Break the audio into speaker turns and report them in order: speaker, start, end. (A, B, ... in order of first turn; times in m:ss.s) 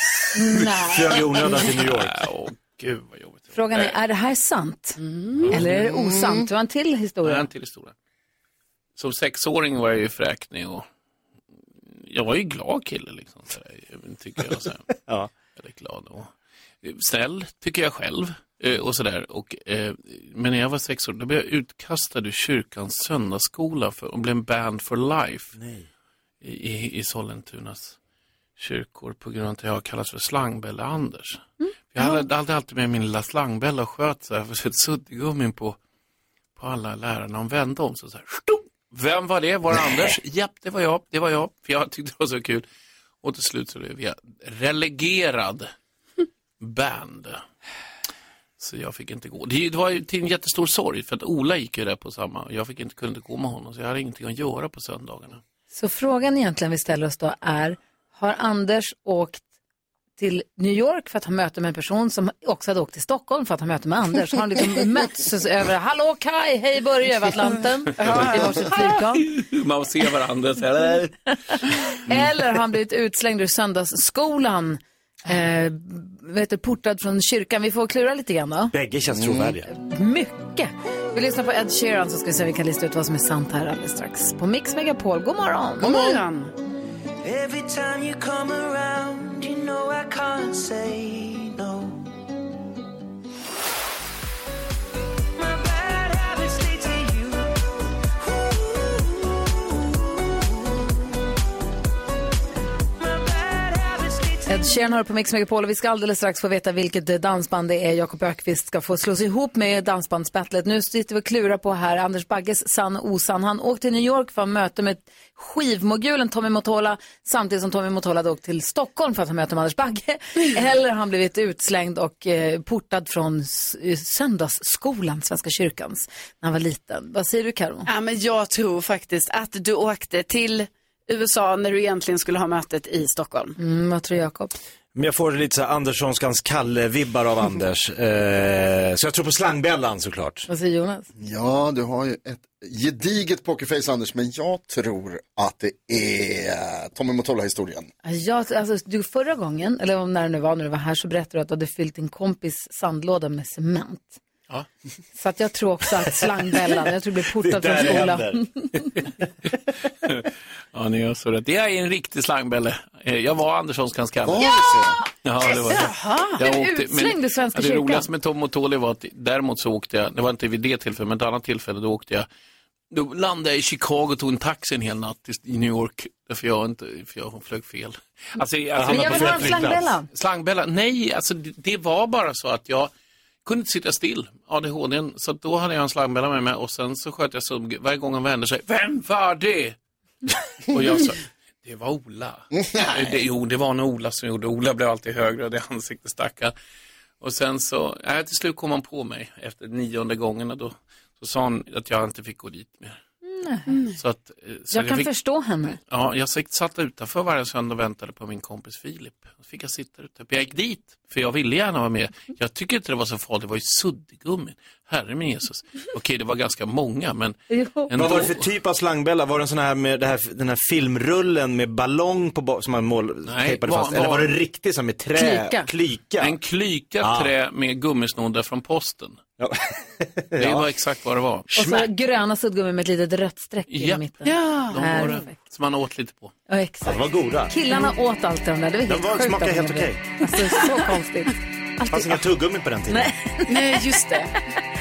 0:00.3-0:01.3 A
0:00.8-0:02.2 B
0:01.2-0:04.0 C
0:03.5-0:07.5 A
0:05.0-0:05.5 D
0:05.4-0:05.9 C
0:07.2-0:07.9 C
0:09.0-0:10.9 C
0:11.9-0:14.8 C
0:14.9-0:15.3 B
0:15.6-0:16.3 C
0:16.8-0:25.6 C
0:25.6-0:25.9 B
0:26.4-0:28.0 C
0:28.6-0:35.8 C
0:36.6-0:42.6 C
0:43.2-0:45.7 C
0:46.6-0:47.4 C
0:48.6-0:55.4 C
0:55.7-0:59.4 A
1:00.2-1:09.3 A
1:08.0-1:11.1 C
1:11.9-1:18.7 A
1:18.7-1:19.7 B
1:19.7-1:26.2 A
1:25.8-1:26.5 D
1:27.2-1:32.1 E
1:35.4-1:37.6 E
1:38.2-1:40.5 E
1:43.0-1:44.7 E
1:44.5-2:07.9 A
2:07.8-2:13.6 D
2:13.6-2:14.5 A
2:15.0-2:20.5 B
2:20.5-2:21.1 A
2:21.2-2:27.9 F
2:28.0-2:34.2 A
2:35.1-2:38.5 A
2:37.4-2:38.5 B
2:40.1-2:44.5 C
2:44.2-2:45.0 F
2:45.2-2:52.3 C
2:45.4-2:46.4 D
2:46.4-2:48.1 A
2:52.9-3:02.9 C
2:58.8-2:59.9 B
2:58.8-3:00.1 A
3:03.4-3:09.8 C
3:10.7-3:16.5 C
3:17.2-3:23.0 C
3:23.2-3:23.8 A
3:23.7-3:24.0 D
3:24.0-3:25.1 C
3:24.7-3:25.8 A
3:25.9-3:37.4 C
3:37.5-3:37.9 A
3:37.9-3:38.4 C
3:37.9-3:46.4 B
3:43.3-3:44.4 C
3:45.2-3:45.7 A
3:46.2-3:49.2 C
3:47.0-3:47.3 B
3:49.4-3:50.8 B
3:50.4-3:51.5 C
3:51.5-3:51.9 B
3:51.5-3:55.4 A
3:53.7-3:54.1 C
3:54.2-3:54.8 D
3:54.6-3:56.3 C
3:56.5-4:02.2 A
3:56.8-3:57.5 B
3:58.9-4:00.0 B
4:01.9-4:03.1 B
4:02.9-4:03.8 A
4:03.5-4:04.3 D